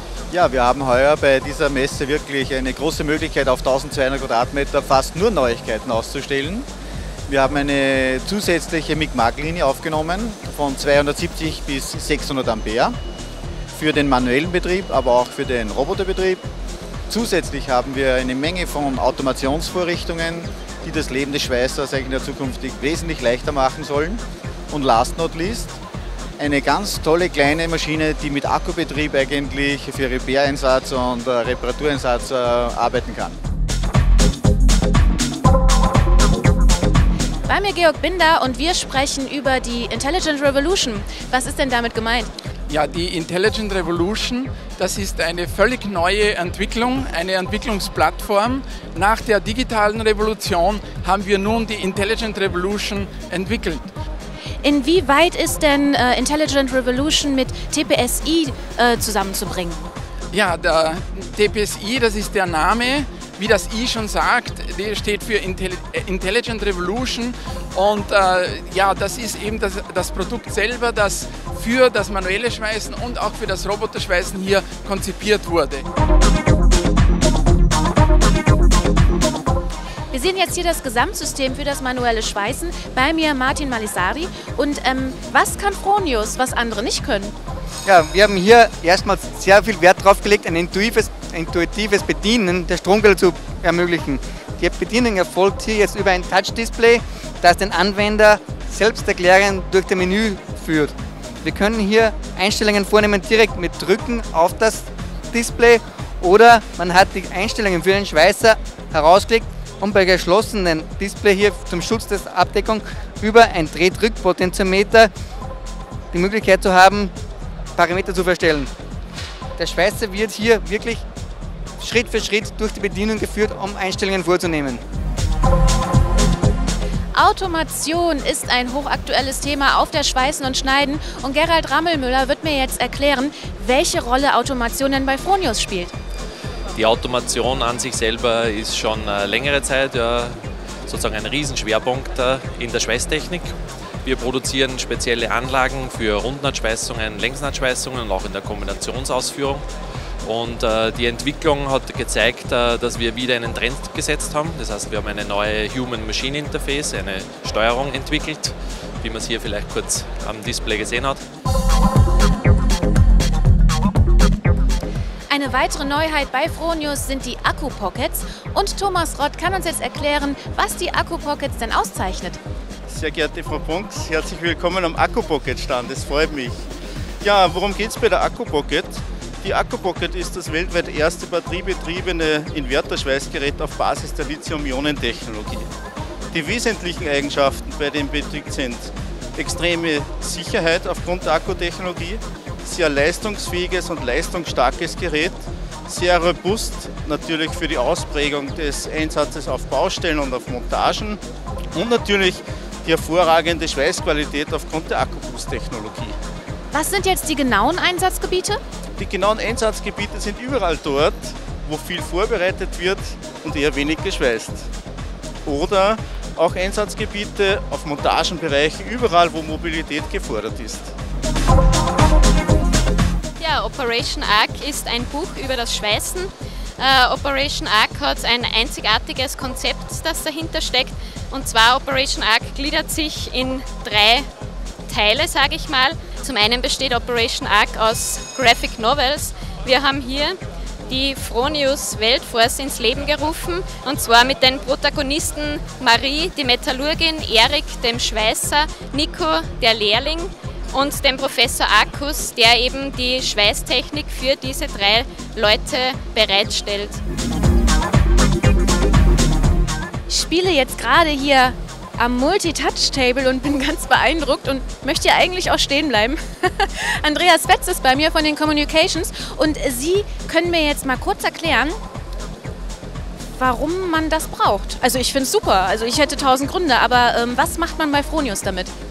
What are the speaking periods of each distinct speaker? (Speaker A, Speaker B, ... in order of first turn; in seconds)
Speaker A: 0.3-6.7, 7.3-13.0, 13.7-16.4, 17.1-25.8, 26.4-33.4
Speaker B: 37.5-42.3, 54.6-59.8, 80.1-87.3, 127.1-135.9, 165.3-172.4, 206.7-208.6, 260.1-271.8, 273.3-278.7
Speaker C: 42.7-53.9, 60.3-75.8
Speaker D: 87.8-115.1, 116.1-117.1, 117.8-118.7, 119.6-121.0, 121.8-124.8
Speaker E: 136.7-149.7, 150.2-161.2
Speaker F: 172.9-176.6, 177.2-185.7, 186.3-201.2, 201.7-206.2, 209.0-214.7, 215.4-220.9
Speaker G: 223.4-234.3, 234.9-257.0